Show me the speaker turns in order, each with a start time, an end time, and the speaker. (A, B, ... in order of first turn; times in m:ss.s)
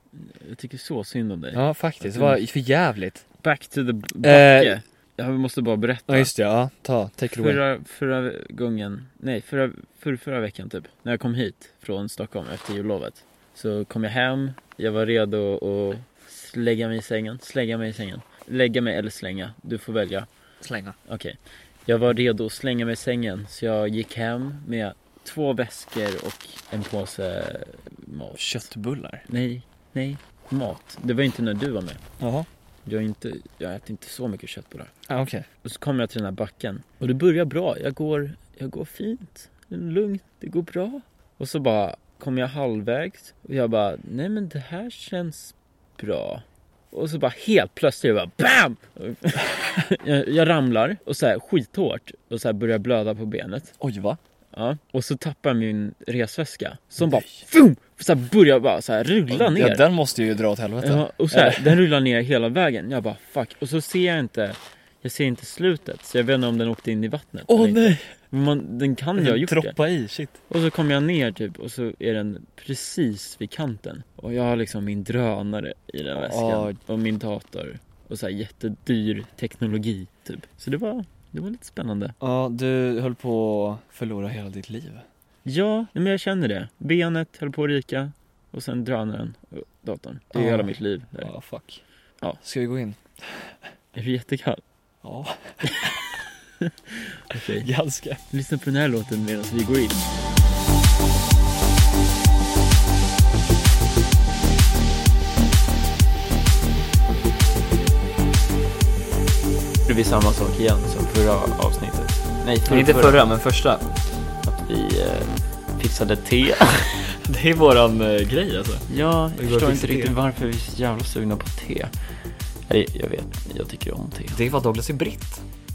0:00.2-0:02.4 A
0:01.6-0:03.2 B
0:03.4-0:06.3 A
0:04.2-0:04.8 B
0:06.1-0:07.6 B
0:07.3-0:20.3 A
0:20.6-0:21.0 B
0:21.1-0:28.6 A
0:28.4-0:29.2 B
0:29.3-0:32.0 A
0:32.2-0:32.5 B
0:32.9-0:34.9 A
0:35.1-0:35.5 B
0:35.6-0:53.7 A
0:53.8-0:54.2 B
0:54.5-0:59.8 A
0:57.0-0:57.3 B
0:59.3-1:01.8 B
1:00.8-1:09.8 A
1:07.5-1:08.1 B
1:09.2-1:10.4 B
1:10.5-1:22.2 A
1:16.2-1:16.8 B
1:22.2-1:25.0 B
1:25.4-1:31.3 A
1:30.3-1:31.8 B
1:32.4-1:33.5 B
1:33.9-1:34.6 A
1:35.0-1:35.9 B
1:35.6-1:36.0 A
1:36.6-1:37.7 A
1:37.6-1:38.2 B
1:38.3-1:40.1 A
1:49.9-1:53.2 A
1:52.7-1:53.8 B
1:54.6-1:57.1 A
1:57.2-2:00.2 B
1:58.9-2:01.9 A
2:02.7-2:04.4 A
2:04.3-2:05.4 B